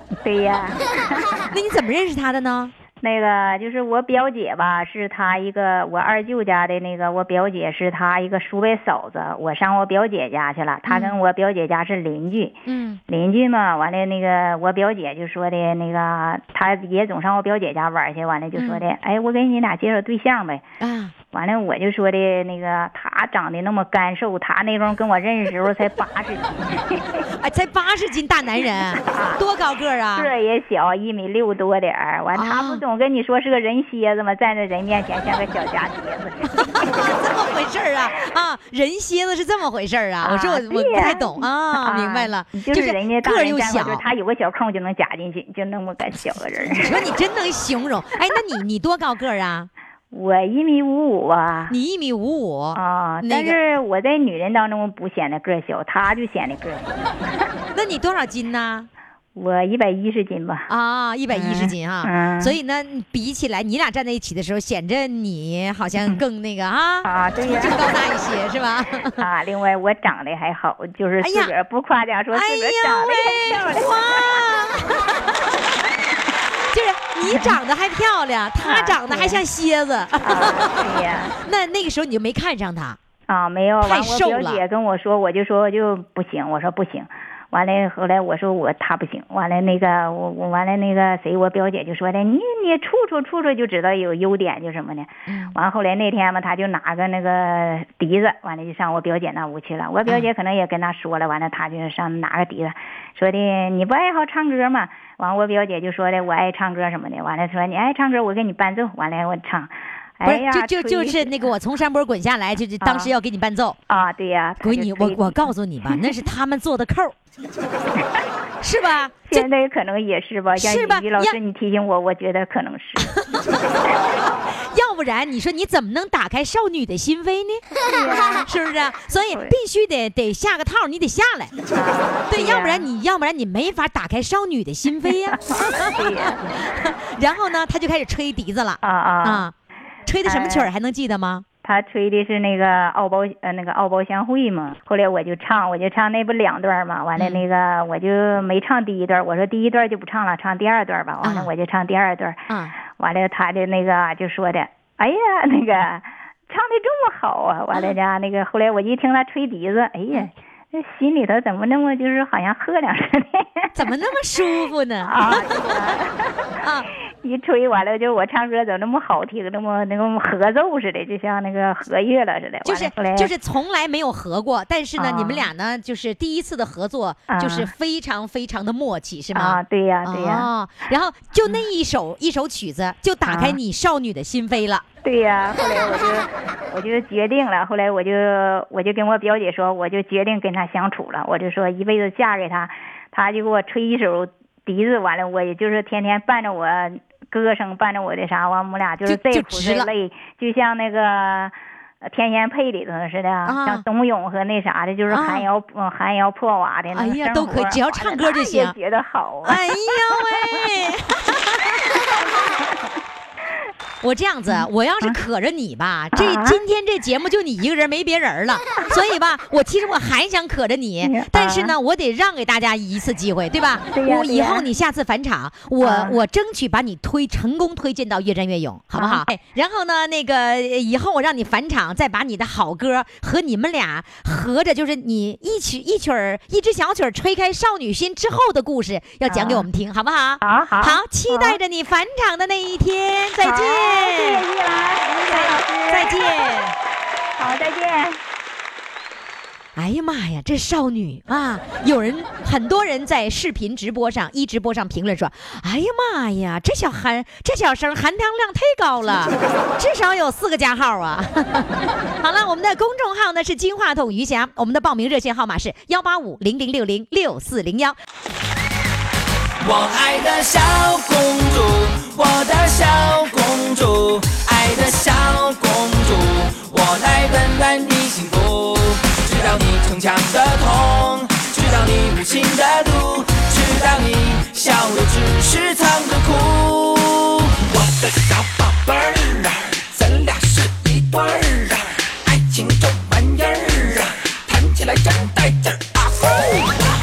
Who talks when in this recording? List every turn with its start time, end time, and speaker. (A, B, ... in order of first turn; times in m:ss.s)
0:00.2-0:01.5 A
0:01.5-0:02.7 B
0:03.0-0:20.6 A
0:10.8-0:11.2 B
0:12.7-0:13.0 B
0:18.5-0:18.8 B
0:20.8-0:21.1 B
0:21.3-0:27.2 A
0:27.4-0:30.3 B
0:29.0-0:29.4 A
0:30.1-0:36.8 A
0:32.3-0:32.8 B
0:36.6-0:44.0 B
0:40.2-0:47.0 A
0:46.8-0:49.7 B
0:50.1-0:51.7 A
0:51.7-0:53.6 B
0:52.7-0:57.4 A
0:57.7-0:58.9 B
0:59.4-1:00.7 A
1:00.7-1:09.2 B
1:01.3-1:02.6 A
1:07.0-1:08.0 A
1:09.2-1:14.5 A
1:11.2-1:11.5 B
1:12.3-1:15.6 B
1:16.7-1:23.0 B
1:17.3-1:17.5 A
1:18.6-1:19.4 A
1:20.2-1:21.3 A
1:23.3-1:51.3 A
1:23.8-1:24.6 B
1:35.3-1:35.5 B
1:50.2-1:53.8 B
1:52.8-1:53.1 A
1:53.9-1:55.4 A
1:54.6-1:57.1 B
1:58.6-1:59.5 B
1:59.3-2:03.2 A
2:00.5-2:01.4 B
2:04.6-2:07.6 B
2:07.8-2:08.5 A
2:08.4-2:11.5 B
2:09.3-2:09.5 A
2:11.7-2:12.8 A
2:12.3-2:19.5 B
2:15.5-2:16.5 A
2:18.8-2:19.5 A
2:20.0-2:21.4 B
2:20.2-2:20.7 A
2:21.6-2:43.7 A
2:27.2-2:27.4 B
2:31.2-2:31.5 B
2:32.5-2:32.7 B
2:43.7-2:46.0 B
2:45.0-2:46.5 A
2:46.6-2:46.9 B
2:47.2-2:53.3 A
2:52.6-3:04.8 B
2:55.0-2:55.5 A
2:57.3-2:57.7 A
2:59.3-3:00.5 A
3:03.2-3:03.6 A
3:05.0-3:21.5 A
3:19.0-3:19.9 B
3:22.0-3:30.6 A
3:23.4-3:23.8 B
3:25.1-3:25.5 B
3:26.9-3:28.8 B
3:29.4-3:32.2 B
3:34.0-4:04.4 B
3:36.1-3:36.6 A
3:41.0-3:41.7 A
3:43.9-3:44.6 A
3:45.8-3:46.2 A
3:48.9-3:49.2 A
3:59.3-3:59.6 A
4:00.4-4:01.6 A
4:03.4-4:06.7 A
4:05.3-4:06.7 B
4:07.4-4:08.2 A
4:09.8-4:28.0 B
4:29.6-4:56.8 C